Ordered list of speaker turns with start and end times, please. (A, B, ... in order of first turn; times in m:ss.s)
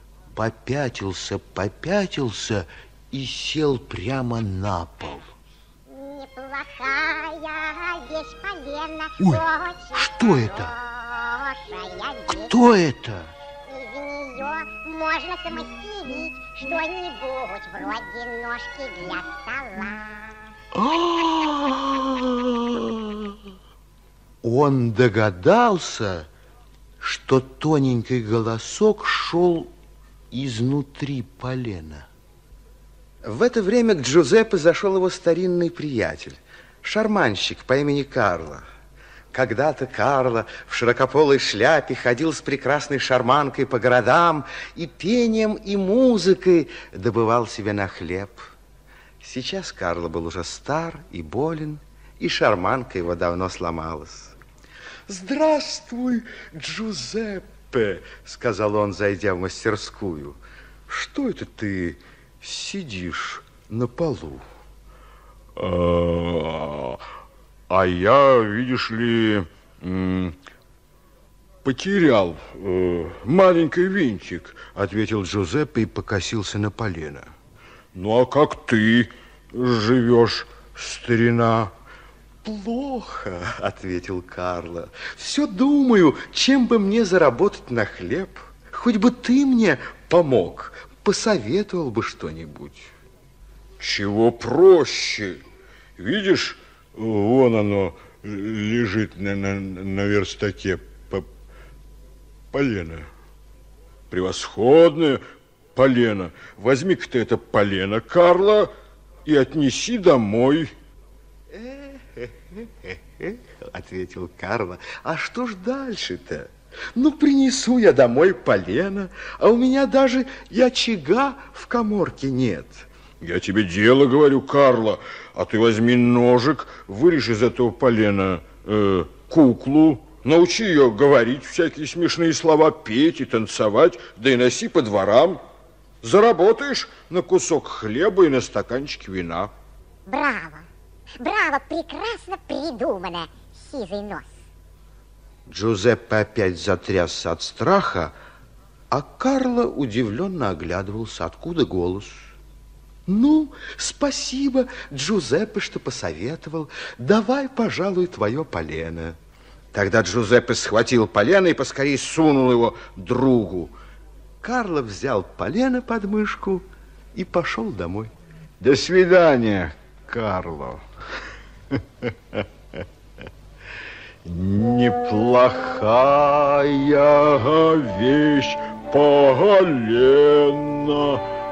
0:00.3-0:05.3 A
0:05.9-0:12.5 B
0:09.2-0:10.8 A
0:12.3-0:13.3 A
0:13.7-0:21.3 B
0:20.7-0:23.3 A
0:24.4-0:26.3 A
0:27.0-0:29.7 A
0:30.3-0:32.1 A
0:33.2-0:38.6 A
0:39.3-0:48.5 A
0:49.2-0:54.4 A
0:55.1-1:04.4 A
1:05.6-1:07.0 C
1:07.7-1:10.4 C
1:11.6-1:15.0 C
1:15.0-1:17.3 A
1:17.9-1:21.7 C
1:22.4-1:32.9 A
1:33.8-1:35.4 C
1:36.0-1:41.3 C
1:42.5-1:43.1 C
1:44.1-1:45.2 C
1:45.8-1:48.7 C
1:49.3-1:50.7 C
1:51.5-2:02.9 A
2:03.2-2:15.4 C
2:16.0-2:19.5 C
2:20.1-2:20.7 B
2:21.2-2:24.3 B
2:25.5-2:28.1 A
2:28.9-2:32.3 A
2:33.1-2:39.2 A
2:39.7-2:43.8 A
2:44.4-2:48.1 A
2:48.6-2:50.8 C
2:54.3-3:01.3 C